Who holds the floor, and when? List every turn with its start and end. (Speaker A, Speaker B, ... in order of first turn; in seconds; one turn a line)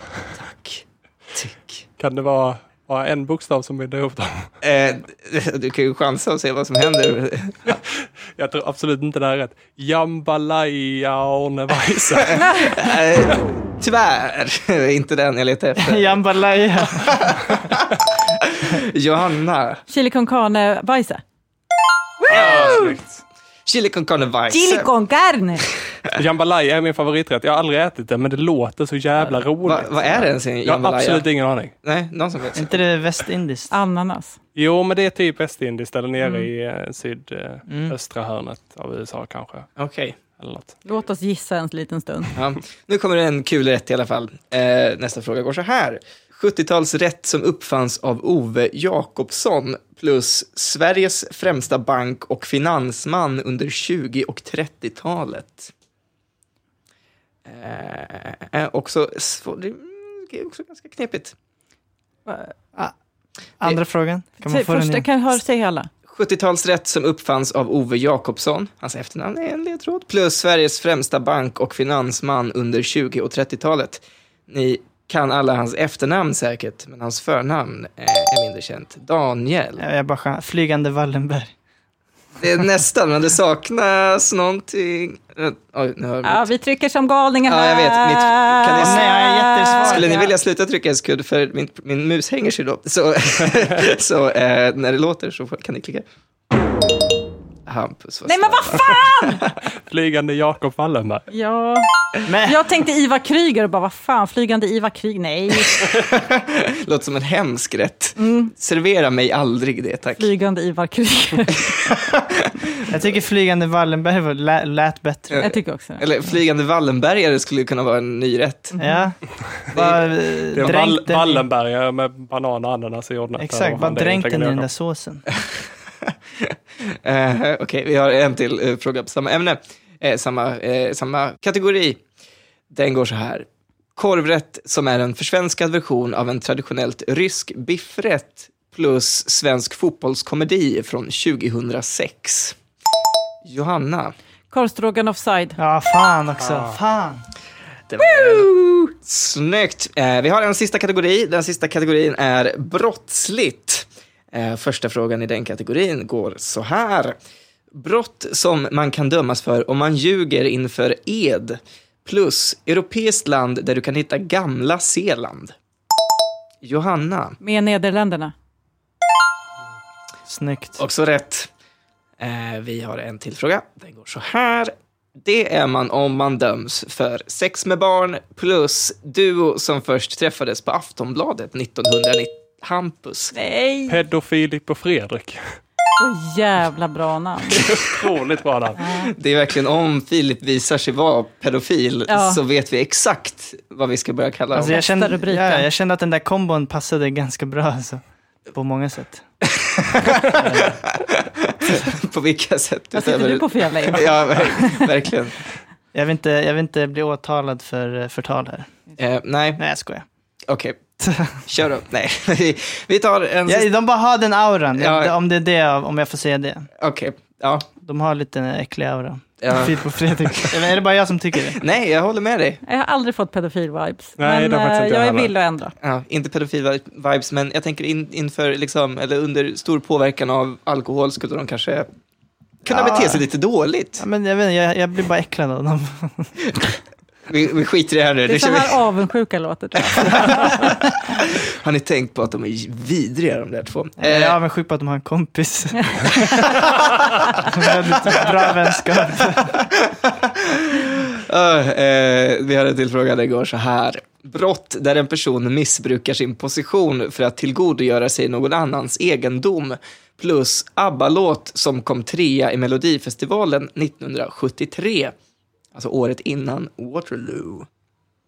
Speaker A: 0.1-1.8
Speaker B: 2.0-4.5
Speaker A: 4.6-7.8
Speaker B: 8.4-12.5
Speaker A: 12.2-16.2
Speaker C: 12.3-12.8
Speaker D: 15.8-17.5
Speaker A: 16.8-19.8
Speaker C: 19.9-21.2
Speaker A: 22.3-23.0
Speaker B: 22.3-23.0
Speaker A: 23.6-24.9
Speaker C: 24.5-25.6
Speaker A: 25.9-26.1
Speaker B: 26.1-31.7
Speaker A: 29.6-31.2
Speaker A: 31.8-32.8
Speaker D: 32.5-33.7
Speaker C: 33.7-34.4
Speaker B: 34.5-39.7
Speaker C: 36.2-36.5
Speaker D: 37.7-37.9
Speaker A: 39.8-40.1
Speaker B: 40.4-40.7
Speaker C: 40.8-42.3
Speaker A: 42.4-55.7
Speaker A: 57.5-61.3
Speaker C: 62.3-62.5
Speaker D: 63.6-65.0
Speaker C: 64.4-65.9
Speaker A: 66.0-79.8
Speaker D: 79.8-81.5
Speaker A: 82.4-86.5
Speaker C: 86.2-90.3
Speaker A: 87.5-89.1
Speaker D: 88.8-90.2
Speaker A: 89.8-96.0
Speaker A: 97.7-99.6
Speaker C: 98.2-99.4
Speaker B: 99.9-101.3
Speaker C: 101.3-105.9
Speaker D: 102.3-102.6
Speaker A: 105.7-110.3
Speaker C: 108.2-108.5
Speaker C: 110.1-111.8
Speaker A: 111.6-112.5
Speaker D: 112.9-115.4
Speaker A: 115.3-118.8
Speaker C: 115.4-116.0
Speaker C: 118.8-119.0
Speaker D: 118.8-121.4
Speaker B: 120.5-124.7
Speaker D: 123.4-125.2
Speaker A: 126.0-132.0
Speaker A: 132.7-142.6
Speaker A: 143.4-144.1
Speaker C: 144.5-145.6
Speaker D: 145.6-147.2
Speaker A: 147.9-157.2
Speaker A: 157.7-165.5
Speaker A: 166.6-167.4
Speaker C: 167.4-168.3
Speaker D: 170.3-170.8
Speaker A: 170.8-171.5
Speaker A: 172.2-183.3
Speaker C: 183.3-184.0
Speaker B: 183.9-185.5
Speaker C: 185.9-187.7
Speaker B: 187.5-188.8
Speaker C: 188.8-189.1
Speaker A: 189.0-194.8
Speaker C: 192.1-192.4
Speaker D: 194.5-199.2
Speaker C: 194.6-195.7
Speaker A: 199.6-205.4
Speaker D: 200.3-200.8
Speaker C: 202.9-204.9
Speaker D: 205.9-208.7
Speaker A: 209.0-209.6
Speaker D: 209.6-210.0
Speaker A: 210.5-210.8
Speaker D: 211.0-211.4
Speaker A: 211.4-213.7
Speaker D: 213.4-216.7
Speaker A: 214.8-215.1
Speaker A: 216.8-217.7
Speaker D: 217.8-221.6
Speaker A: 219.4-220.7
Speaker A: 221.4-222.6
Speaker C: 222.6-225.7
Speaker B: 224.2-225.3
Speaker A: 225.8-231.9
Speaker A: 232.6-234.0
Speaker D: 232.7-233.2
Speaker D: 234.0-236.3
Speaker A: 237.2-238.8
Speaker C: 238.2-240.9
Speaker A: 239.8-244.4
Speaker D: 244.0-249.6
Speaker A: 246.4-246.9
Speaker A: 247.4-248.3
Speaker A: 249.4-265.1
Speaker A: 265.7-267.7